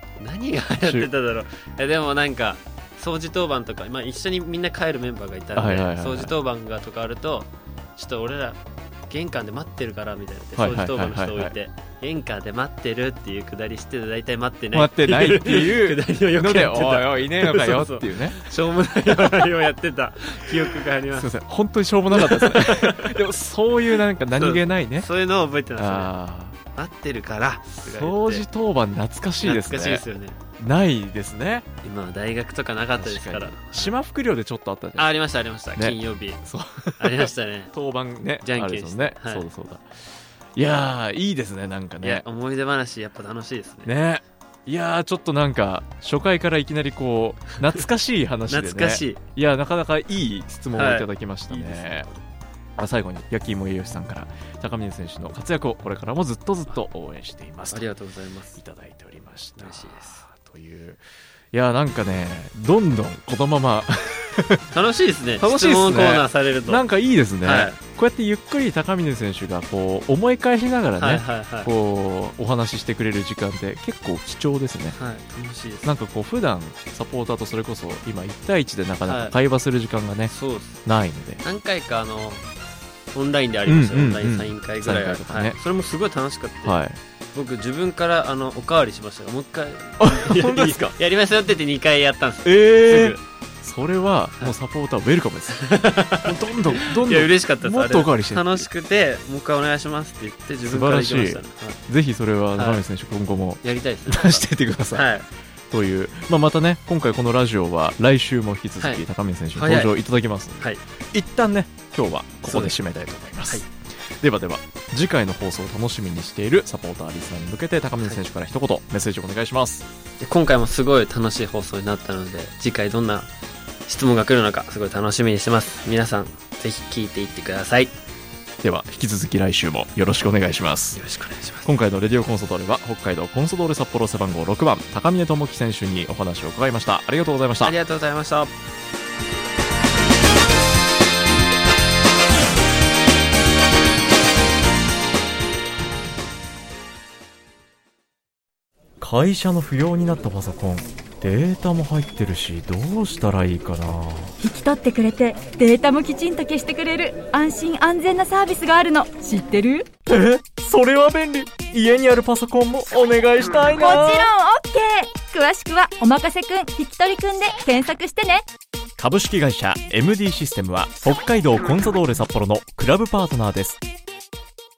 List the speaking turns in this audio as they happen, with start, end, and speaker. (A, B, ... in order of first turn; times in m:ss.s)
0:00.2-0:21.3 A
0:00.8-0:01.1 B
0:05.6-0:06.3 B
0:10.6-0:11.6 B
0:14.7-0:18.4 B
0:21.1-0:25.1 B
0:22.1-0:23.3 A
0:24.3-0:26.1 A
0:25.8-0:26.6 B
0:26.7-0:28.5 A
0:27.7-0:30.0 B
0:29.4-0:30.4 A
0:30.6-0:31.7 B
0:31.8-0:34.0 A
0:32.9-0:35.1 B
0:35.0-0:36.4 A
0:35.8-0:39.9 B
0:37.0-0:37.7 A
0:38.4-0:39.5 A
0:40.6-0:42.2 B
0:42.0-0:43.9 A
0:43.8-0:52.1 B
0:48.5-0:49.2 A
0:50.7-0:52.2 A
0:52.8-0:57.9 B
0:57.7-0:58.6 A
0:58.6-1:01.0 B
0:59.6-1:00.2 A
1:01.5-1:04.6 B
1:04.7-1:06.9 A
1:05.4-1:15.0 B
1:07.4-1:07.8 A
1:11.0-1:11.7 A
1:14.9-1:15.9 A
1:15.8-1:20.3 B
1:19.1-1:19.4 A
1:20.3-1:20.8 A
1:20.8-1:21.4 B
1:21.4-1:22.5 A
1:23.1-1:26.8 A
1:23.7-1:25.6 B
1:26.6-1:27.0 B
1:27.3-1:33.2 A
1:30.0-1:31.0 B
1:32.4-1:38.7 B
1:35.5-1:41.8 A
1:40.6-1:45.1 B
1:42.5-1:42.8 A
1:43.6-1:45.3 A
1:45.7-1:53.7 B
1:48.8-1:49.9 A
1:52.4-1:52.8 A
1:54.2-1:59.8 B
2:00.2-2:03.3 A
2:03.9-2:08.0 A
2:08.6-2:11.0 B
2:10.9-2:11.7 A
2:11.6-2:17.8 B
2:17.6-2:18.5 A
2:29.0-2:34.4 B
2:34.4-2:39.9 C
2:40.1-2:44.3 B
2:43.6-2:48.4 C
2:49.0-2:53.8 B